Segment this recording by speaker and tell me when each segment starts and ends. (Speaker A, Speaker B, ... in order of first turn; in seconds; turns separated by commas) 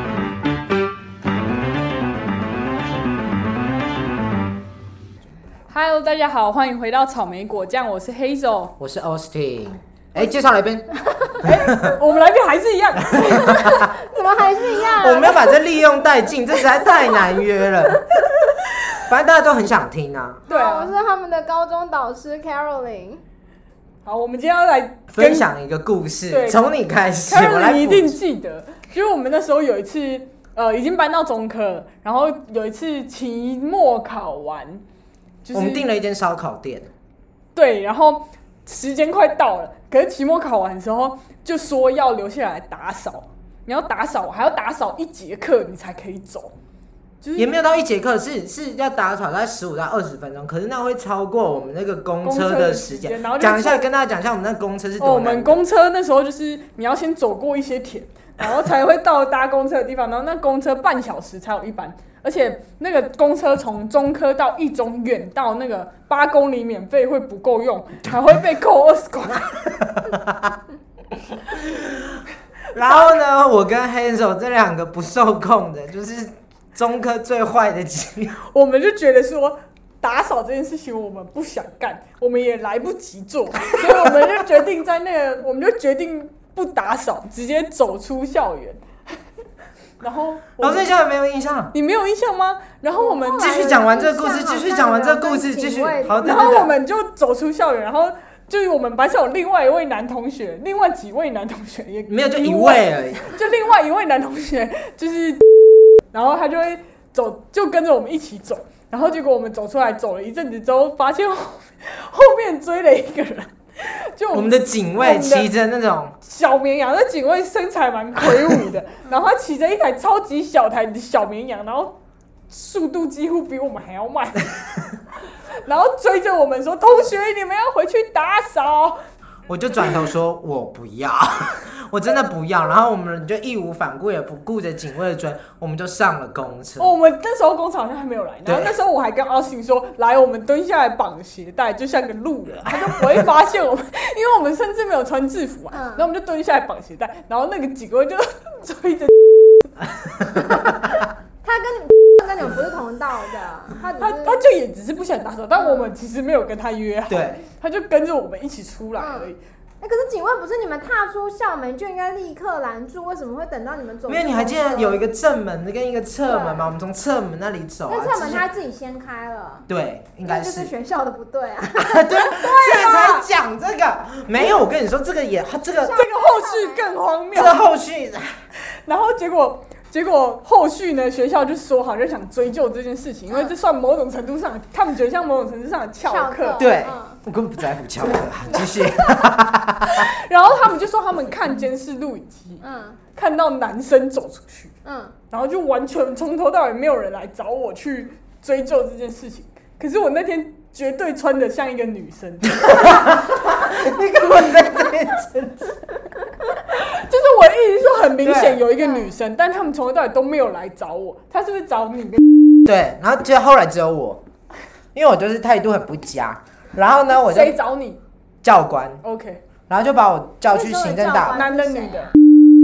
Speaker A: 5.7-8.7, Speaker B: 8.8-11.9, Speaker A: 11.4-13.9, Speaker C: 13.2-15.8, Speaker B: 15.0-18.0, Speaker B: 19.0-20.4, Speaker C: 20.4-23.2, Speaker A: 20.5-20.9, Speaker A: 24.0-25.4, Speaker B: 25.1-28.2, Speaker A: 26.3-26.6, Speaker A: 27.3-34.8, Speaker A: 35.4-35.9, Speaker B: 35.5-36.9, Speaker A: 37.5-46.5, Speaker A: 47.2-47.5, Speaker B: 47.4-55.6, Speaker A: 52.2-53.8, Speaker A: 55.0-69.6, Speaker B: 70.0-70.4, Speaker B: 71.5-72.1, Speaker B: 72.7-78.4, Speaker A: 78.4-88.8, Speaker A: 90.0-90.9, Speaker B: 90.6-91.7, Speaker A: 91.7-93.8, Speaker C: 92.9-96.7, Speaker B: 93.3-96.7, Speaker A: 96.2-105.4, Speaker B: 102.1-103.4, Speaker A: 106.1-115.5, Speaker B: 114.3-116.1, Speaker A: 116.2-121.9, Speaker A: 122.5-125.0, Speaker A: 125.6-129.0, Speaker B: 129.5-136.9, Speaker A: 136.8-149.8, Speaker B: 138.4-138.8, Speaker C: 145.7-146.1, Speaker C: 151.4-154.4, Speaker A: 154.0-159.4, Speaker C: 155.5-155.9, Speaker B: 157.1-157.4, Speaker C: 158.9-165.0, Speaker B: 164.1-168.4, Speaker C: 166.2-166.7, Speaker C: 167.9-169.7, Speaker B: 169.7-170.7, Speaker C: 170.2-173.2, Speaker B: 171.8-175.9, Speaker C: 175.8-177.0, Speaker A: 175.9-177.6, Speaker B: 177.3-178.3, Speaker A: 178.6-186.7, Speaker C: 183.3-183.5, Speaker C: 186.0-187.2, Speaker B: 186.6-190.0, Speaker A: 189.9-192.6, Speaker C: 192.6-193.0, Speaker A: 193.1-194.7, Speaker C: 194.8-195.2, Speaker A: 195.3-203.0, Speaker B: 202.7-205.7, Speaker A: 206.6-212.2, Speaker B: 208.2-208.6, Speaker B: 212.7-214.2, Speaker B: 214.9-217.6, Speaker A: 217.1-218.0, Speaker B: 218.4-219.0, Speaker A: 219.0-219.4, Speaker B: 219.7-221.5, Speaker C: 220.5-222.1, Speaker A: 221.3-222.2